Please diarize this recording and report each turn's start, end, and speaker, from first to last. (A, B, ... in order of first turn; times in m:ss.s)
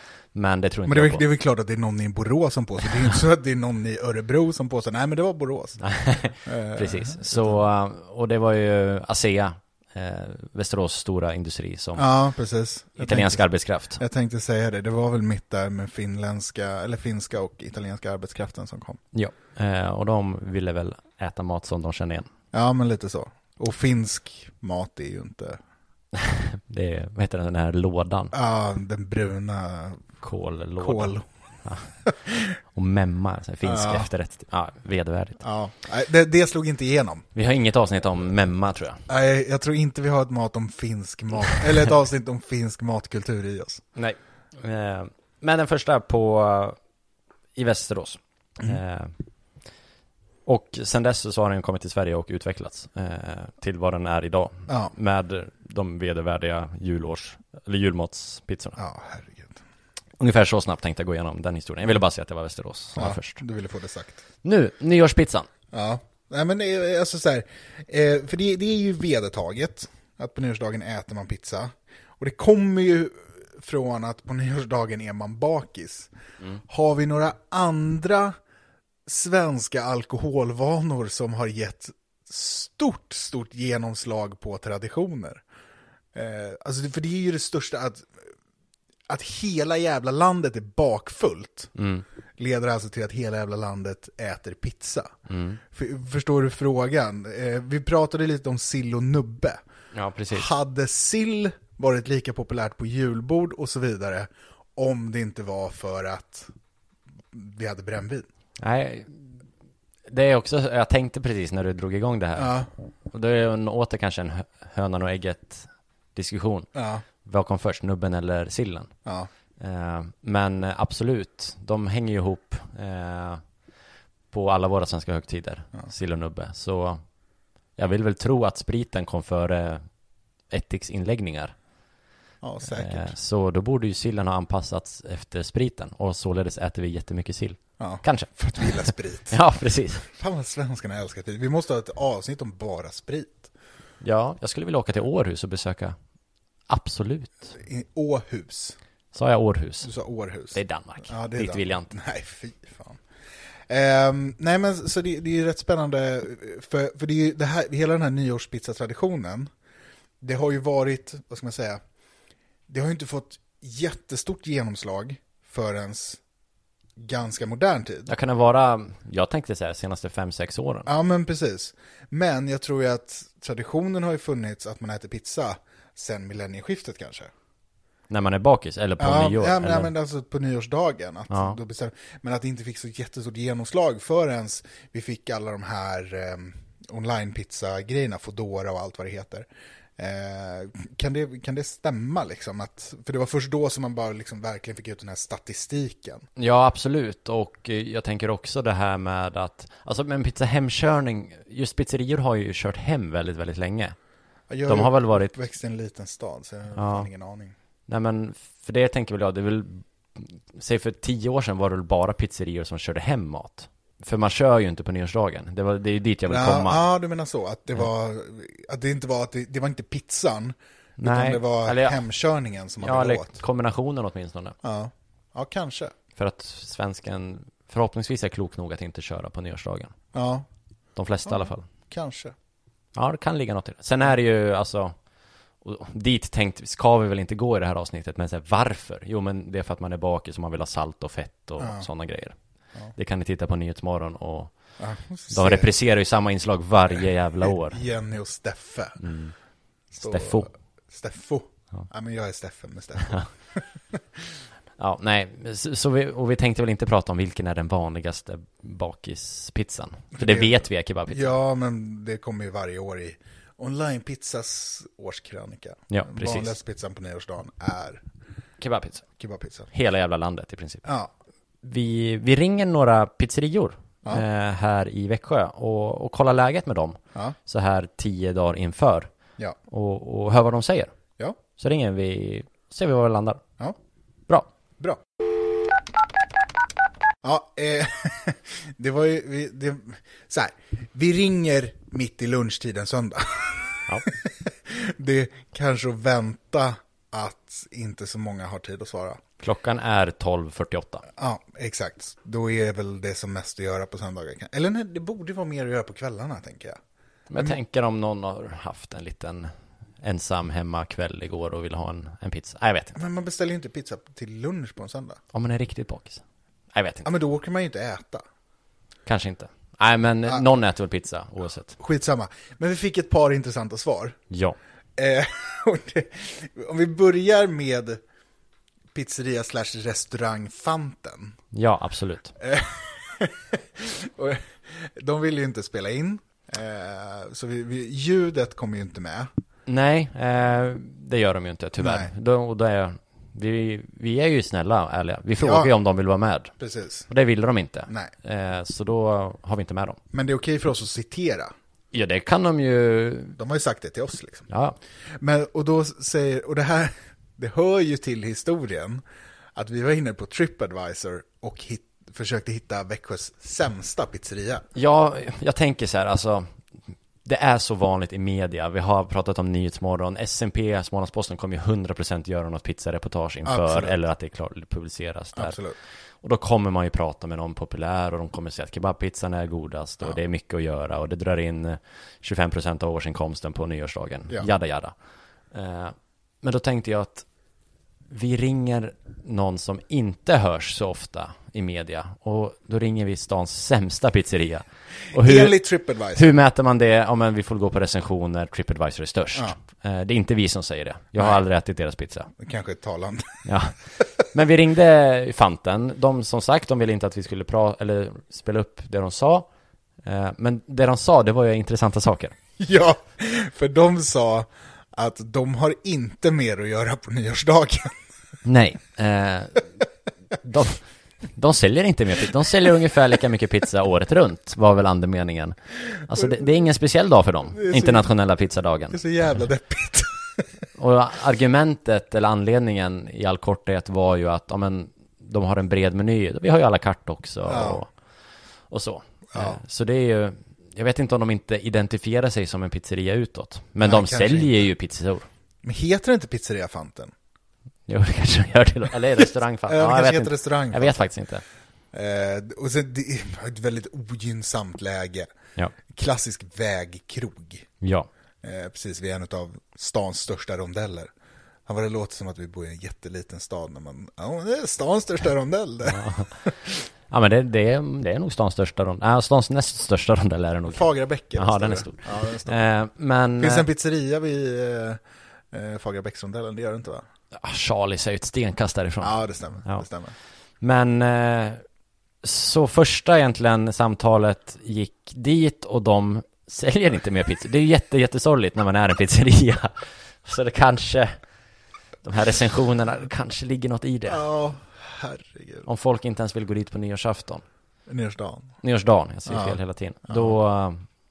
0:00.3-0:01.2 A
0:00.9-0:05.9 B
0:05.8-0:12.0 A
0:06.4-0:07.6 B
0:12.0-0:13.4 B
0:13.0-0:14.0 A
0:14.0-0:19.0 B
0:19.1-0:22.3 A
0:22.5-0:25.6 B
0:26.1-0:28.3 A
0:28.3-0:30.0 B
0:30.2-0:31.9 A
0:30.8-0:31.2 B
0:32.0-0:32.5 B
0:32.7-0:35.4 A
0:33.6-0:34.1 B
0:35.4-0:37.2 B
0:37.3-0:39.0 A
0:39.1-0:43.8 B
0:44.0-0:46.8 A
0:47.5-0:49.1 A
0:50.4-0:58.8 A
0:54.7-0:54.9 B
0:58.8-0:59.6 B
1:00.2-1:03.4 A
1:02.9-1:04.2 B
1:04.4-1:05.5 A
1:05.7-1:16.1 B
1:16.7-1:18.4 B
1:19.0-1:25.4 B
1:26.1-1:28.2 B
1:29.1-1:31.7 B
1:31.7-1:32.0 A
1:32.4-1:35.1 B
1:35.3-1:35.6 A
1:35.7-1:39.6 B
1:39.9-1:40.5 A
1:40.3-1:46.5 B
1:47.3-1:48.3 B
1:48.6-1:49.3 A
1:50.1-1:52.6 A
1:52.4-1:52.7 B
1:53.1-1:56.7 A
1:56.7-1:57.0 B
1:57.2-1:58.9 A
1:59.6-2:03.4 A
2:04.3-2:07.0 A
2:07.8-2:09.8 A
2:10.5-2:11.5 A
2:12.4-2:13.1 B
2:12.7-2:20.0 A
2:17.8-2:19.4 B
2:20.0-2:23.5 B
2:24.0-2:26.0 A
2:26.7-2:27.5 A
2:27.6-2:28.8 B
2:29.1-2:29.9 A
2:29.8-2:33.0 B
2:30.5-2:31.9 A
2:33.7-2:39.5 B
2:40.2-2:41.8 B
2:42.7-2:46.2 B
2:47.0-2:48.1 B
2:48.1-2:50.9 A
2:50.8-2:57.3 B
2:58.1-2:59.9 A
2:59.0-3:16.3 B
3:01.3-3:01.6 A
3:16.4-3:23.9 A
3:24.5-3:27.5 B
3:24.6-3:25.3 A
3:26.8-3:27.1 A
3:27.9-3:36.8 A
3:36.3-3:43.4 B
3:41.0-3:42.0 A
3:42.8-3:44.6 A
3:44.6-3:45.9 B
3:46.2-3:50.0 A
3:50.1-3:50.4 B
3:51.0-3:51.7 A
3:51.2-3:52.3 B
3:52.9-3:54.9 A
3:55.6-4:02.4 A
4:01.6-4:01.9 B
4:02.9-4:04.5 A
4:04.8-4:05.7 B
4:05.3-4:07.8 A
4:07.4-4:09.0 B
4:09.0-4:09.3 A
4:09.9-4:14.3 B
4:10.0-4:10.5 A
4:14.8-4:21.3 A
4:20.1-4:28.0 B
4:25.9-4:26.5 A
4:28.6-4:29.0 A
4:29.2-4:29.7 B
4:29.7-4:30.9 A
4:30.8-4:31.1 B
4:31.6-4:39.1 A
4:39.7-4:40.9 A
4:41.6-4:43.4 A
4:47.2-4:59.2 B
4:59.4-5:01.0 A
5:01.2-5:06.8 B
5:07.3-5:09.5 A
5:10.0-5:13.0 A
5:12.9-5:15.2 B
5:15.3-5:16.2 A
5:16.7-5:17.1 A
5:17.0-5:18.2 B
5:19.0-5:21.7 A
5:21.8-5:24.2 B
5:24.3-5:24.6 A
5:25.0-5:28.0 B
5:28.9-5:31.4 B
5:31.5-5:32.3 A
5:32.4-5:39.3 B
5:39.7-5:46.5 A
5:41.8-5:42.1 B
5:45.4-5:45.7 B
5:46.6-5:47.1 B
5:47.1-5:50.0 A
5:50.1-5:51.5 B
5:51.9-5:53.4 A
5:53.4-5:54.5 B
5:54.5-5:54.8 A
5:55.1-5:59.0 B
5:59.5-6:04.6 B
6:04.7-6:06.5 A
6:07.2-6:15.6 A
6:13.4-6:13.9 B
6:15.4-6:15.8 B
6:16.2-6:24.9 A
6:25.5-6:27.2 A
6:28.1-6:35.6 A
6:35.1-6:36.3 B
6:36.1-6:42.3 A
6:42.4-6:43.4 B
6:43.4-6:49.5 A
6:50.0-6:52.3 A
6:52.6-6:58.0 B
6:58.4-6:59.7 A
7:00.4-7:09.0 A
7:06.1-7:06.5 B
7:07.5-7:08.1 B
7:08.9-7:10.4 B
7:10.8-7:17.9 A
7:17.4-7:17.8 B
7:18.7-7:25.3 A
7:19.3-7:19.6 B
7:23.8-7:24.6 B
7:25.6-7:27.1 B
7:27.9-7:31.4 A
7:29.2-7:31.1 B
7:31.9-7:35.3 B
7:35.9-7:37.7 B
7:37.8-7:38.1 A
7:38.4-7:41.1 B
7:41.6-7:46.7 B
7:45.8-7:46.4 A
7:47.1-7:53.7 A
7:50.7-7:52.6 B
7:53.4-7:57.0 B
7:57.3-7:59.8 A
7:59.0-8:00.1 B
8:00.6-8:01.6 A
8:02.2-8:11.2 A
8:12.0-8:14.2 A
8:14.1-8:15.7 B
8:15.6-8:17.4 A
8:17.9-8:18.5 B
8:18.6-8:20.8 A
8:19.2-8:19.6 B
8:20.1-8:20.3 B